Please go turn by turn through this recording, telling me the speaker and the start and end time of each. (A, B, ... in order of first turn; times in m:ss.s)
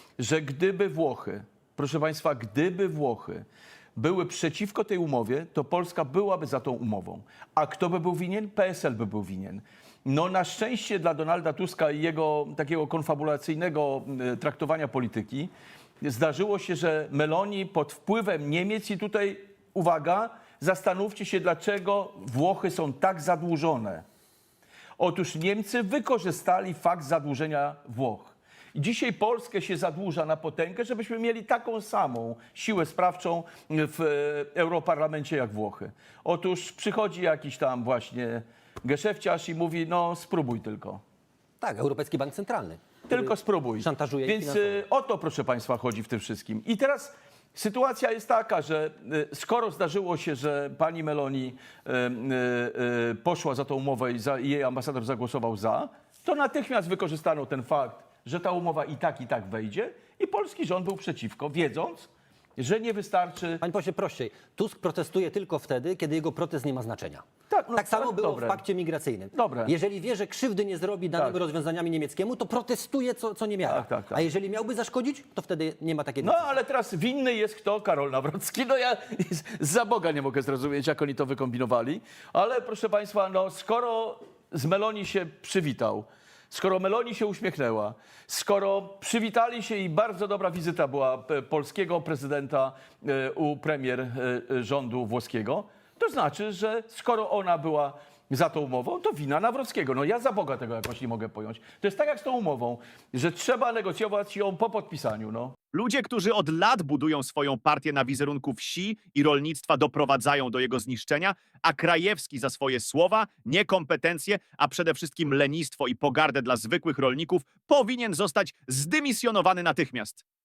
0:00.2-0:03.4 A
0:04.0-0:15.5 A
0:16.0-0:24.0 A
0:25.0-0:41.0 A
0:41.6-0:44.8 B
0:43.1-1:03.6 A
1:03.6-1:07.2 B
1:07.5-1:08.6 A
1:07.7-1:16.5 B
1:09.3-1:09.7 A
1:11.1-1:11.4 A
1:13.7-1:14.2 A
1:16.2-1:45.6 A
1:45.7-2:00.2 C